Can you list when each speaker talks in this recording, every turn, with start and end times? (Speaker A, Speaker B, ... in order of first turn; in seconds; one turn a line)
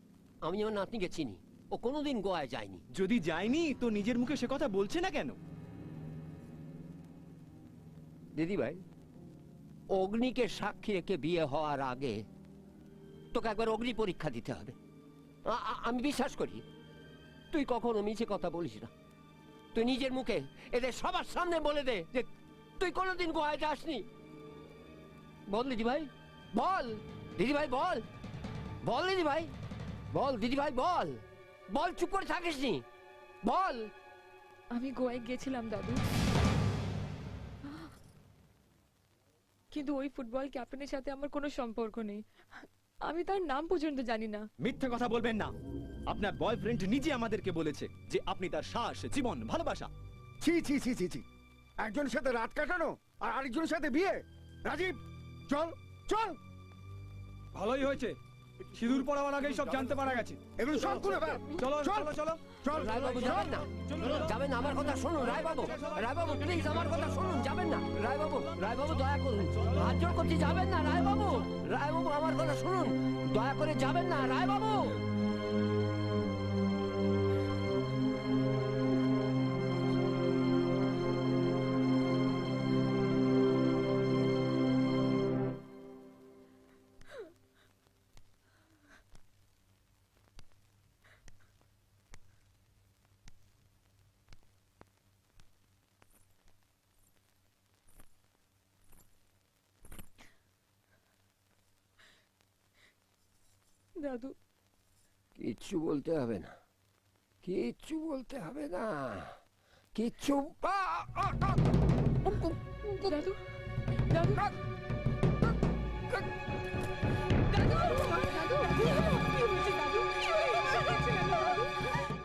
Speaker A: 0.4-2.8
Speaker B: 3.0-5.4
Speaker A: 8.3-8.8
Speaker A: 9.9-12.2
Speaker A: 13.3-14.8
Speaker A: 15.5-16.6
Speaker A: 17.5-18.9
Speaker A: 19.7-22.3
Speaker A: 22.8-24.1
Speaker A: 25.5-28.1
Speaker A: 28.8-29.5
Speaker A: 30.1-32.8
Speaker A: 33.4-33.9
Speaker C: 34.7-36.0
Speaker C: 39.7-42.2
Speaker C: 43.1-44.5
Speaker B: 44.6-45.5
Speaker B: 46.1-49.9
Speaker D: 50.4-51.2
Speaker D: 51.8-55.0
Speaker D: 55.5-56.4
Speaker E: 57.6-58.1
Speaker E: 58.8-60.3
Speaker D: 60.6-63.5
Speaker E: 61.7-62.4
Speaker A: 62.8-75.0
Speaker C: 104.0-104.3
Speaker A: 105.4-106.5
Speaker A: 107.4-109.4
Speaker A: 109.9-111.6
Speaker C: 113.0-113.4
Speaker C: 114.1-114.5
Speaker C: 117.5-121.7